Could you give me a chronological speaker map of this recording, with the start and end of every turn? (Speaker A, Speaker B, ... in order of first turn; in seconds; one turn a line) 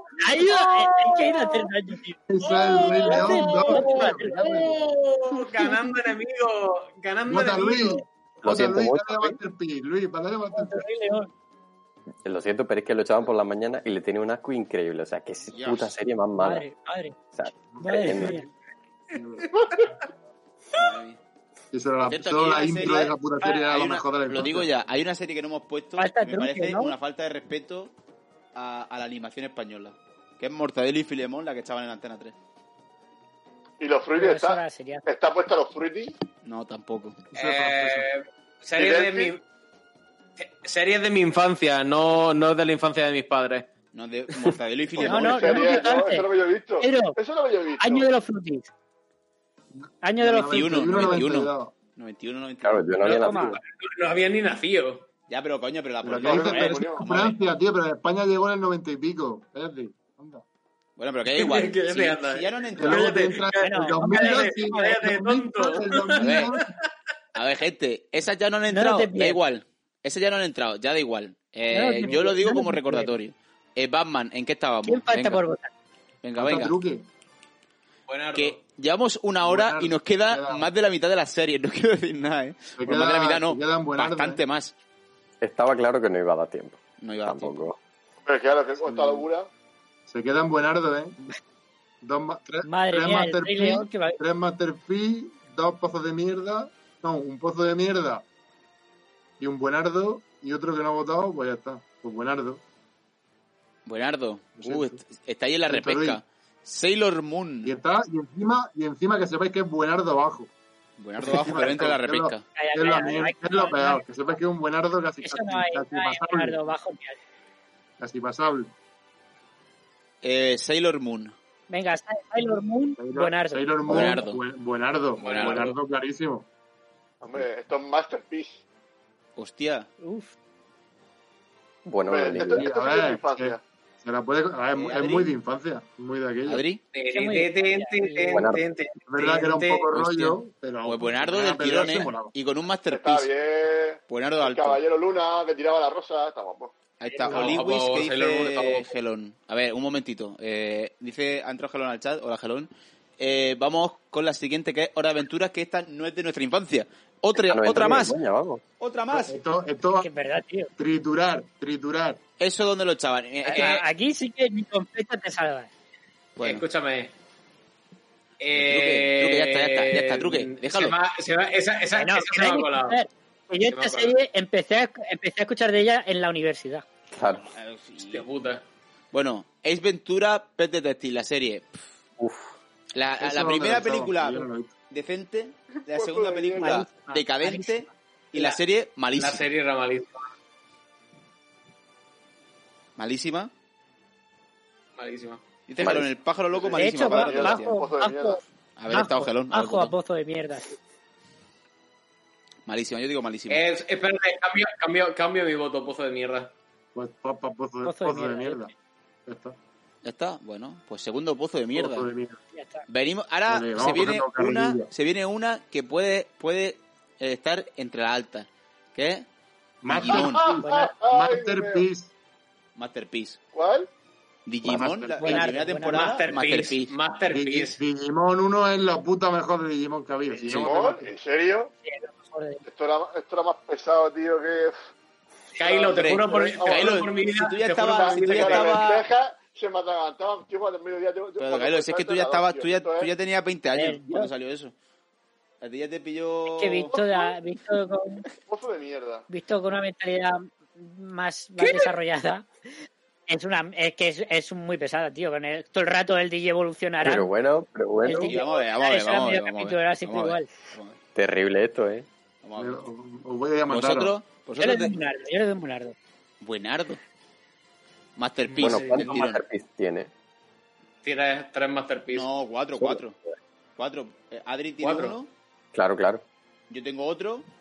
Speaker A: 0.2-2.2
Speaker B: 0.5-1.3
Speaker C: 2.3-5.0
Speaker B: 2.4-8.0
Speaker A: 2.8-4.7
Speaker C: 7.3-10.8
Speaker D: 8.4-9.4
Speaker A: 10.5-11.3
Speaker D: 12.2-16.6
Speaker E: 15.5-15.9
Speaker A: 16.4-17.2
Speaker D: 17.4-18.4
Speaker C: 17.7-18.5
Speaker A: 17.8-18.5
Speaker C: 19.1-19.5
Speaker F: 19.5-19.9
Speaker E: 20.8-21.2
Speaker C: 21.7-24.7
Speaker E: 22.0-27.9
Speaker A: 26.0-26.9
Speaker E: 28.6-32.4
Speaker F: 33.8-36.1
Speaker A: 34.1-35.1
Speaker E: 36.4-37.2
Speaker C: 37.3-38.1
Speaker B: 37.4-39.4
Speaker F: 38.8-39.3
Speaker B: 40.4-43.7
Speaker E: 43.9-45.8
Speaker F: 45.0-48.1
Speaker A: 45.0-46.3
Speaker A: 46.8-47.2
Speaker A: 47.8-48.7
Speaker C: 49.8-51.7
Speaker A: 50.0-50.8
Speaker E: 50.5-53.2
Speaker D: 52.6-53.6
Speaker A: 53.0-53.6
Speaker B: 53.6-55.1
Speaker E: 55.3-57.4
Speaker C: 56.0-60.4
Speaker F: 56.2-57.1
Speaker E: 61.0-63.2
Speaker B: 61.3-66.8
Speaker C: 62.8-66.7
Speaker A: 63.6-64.7
Speaker E: 66.2-66.5
Speaker E: 67.3-75.4
Speaker A: 68.7-69.4
Speaker A: 71.7-73.1
Speaker A: 74.9-75.7
Speaker E: 76.2-76.8
Speaker C: 76.4-77.0
Speaker B: 78.1-78.6
Speaker E: 78.3-84.7
Speaker C: 79.4-80.7
Speaker C: 82.8-84.4
Speaker D: 85.4-87.8
Speaker E: 87.0-87.5
Speaker F: 88.3-89.5
Speaker C: 88.8-89.2
Speaker C: 90.1-91.2
Speaker C: 92.0-98.2
Speaker A: 92.6-94.2
Speaker C: 99.4-102.6
Speaker E: 103.9-107.7
Speaker C: 104.6-105.0
Speaker C: 105.7-106.2
Speaker C: 107.6-110.5
Speaker E: 111.0-112.5
Speaker C: 111.2-116.6
Speaker A: 112.6-114.0
Speaker A: 115.2-117.2
Speaker C: 118.0-118.7
Speaker E: 120.2-121.3
Speaker A: 121.7-123.7
Speaker C: 123.0-126.5
Speaker E: 123.9-124.4
Speaker B: 125.2-125.8
Speaker E: 125.2-125.7
Speaker F: 127.2-128.6
Speaker E: 129.4-129.9
Speaker A: 130.0-130.4
Speaker D: 131.8-132.7
Speaker F: 132.1-133.6
Speaker C: 132.3-136.6
Speaker E: 134.8-135.3
Speaker E: 136.5-136.8
Speaker B: 136.9-139.9
Speaker A: 137.1-138.4
Speaker D: 138.3-138.6
Speaker C: 139.1-142.3
Speaker E: 139.9-143.3
Speaker F: 142.9-146.7
Speaker E: 144.1-144.8
Speaker E: 147.0-158.2
Speaker A: 147.1-147.6
Speaker B: 147.2-148.9
Speaker D: 157.4-158.6
Speaker E: 158.8-159.3
Speaker C: 159.1-160.1
Speaker A: 160.0-160.7
Speaker C: 160.8-162.2
Speaker E: 162.4-163.9
Speaker A: 163.4-165.7
Speaker B: 163.5-163.8
Speaker E: 166.4-166.7
Speaker B: 166.4-167.1
Speaker B: 168.4-173.0
Speaker E: 168.5-171.0
Speaker A: 172.0-176.8
Speaker B: 173.7-174.2
Speaker D: 177.1-177.4
Speaker E: 177.3-178.3
Speaker B: 178.0-178.6
Speaker E: 179.1-181.8
Speaker D: 182.2-182.5
Speaker E: 182.9-189.5
Speaker C: 183.2-184.8
Speaker F: 185.7-186.8
Speaker A: 186.6-187.9
Speaker B: 189.2-190.2
Speaker E: 193.0-193.5
Speaker B: 195.0-195.4
Speaker E: 195.7-197.8
Speaker D: 195.8-196.1
Speaker F: 196.5-198.4
Speaker A: 196.7-200.8
Speaker E: 198.8-199.9
Speaker E: 202.7-203.6
Speaker B: 203.5-206.5
Speaker C: 206.9-208.7
Speaker A: 207.8-208.7
Speaker C: 209.3-209.6
Speaker E: 210.0-212.1
Speaker C: 211.7-212.4
Speaker A: 212.5-212.9
Speaker E: 212.9-219.3
Speaker C: 213.5-214.9
Speaker C: 219.8-222.1
Speaker E: 219.9-220.4
Speaker F: 220.1-221.8
Speaker A: 220.4-220.9
Speaker E: 222.8-223.4
Speaker F: 223.5-223.9
Speaker E: 224.5-226.9
Speaker C: 224.6-225.7
Speaker A: 225.2-226.2
Speaker B: 225.9-227.8
Speaker C: 227.3-231.1
Speaker F: 230.5-231.7
Speaker A: 231.8-232.6
Speaker F: 232.7-234.8
Speaker B: 235.6-238.9
Speaker F: 235.6-237.1
Speaker E: 236.0-239.1
Speaker F: 237.8-243.1
Speaker E: 241.4-244.7
Speaker A: 243.7-244.3
Speaker E: 245.6-246.9
Speaker A: 246.5-248.2
Speaker F: 246.9-247.3
Speaker F: 248.5-249.3
Speaker A: 249.3-252.5
Speaker B: 251.6-251.9
Speaker A: 253.3-257.3
Speaker D: 257.0-258.4
Speaker A: 258.0-260.5
Speaker E: 258.2-261.0
Speaker D: 261.1-262.1
Speaker E: 262.4-262.8
Speaker C: 262.6-264.2
Speaker E: 263.7-265.0
Speaker A: 264.6-265.9
Speaker E: 266.4-267.0
Speaker E: 268.2-269.4
Speaker B: 268.5-269.3
Speaker D: 268.6-270.1
Speaker B: 271.0-272.3
Speaker E: 272.1-273.2
Speaker E: 273.8-275.3
Speaker B: 274.8-275.2
Speaker D: 275.7-276.2
Speaker E: 276.7-277.5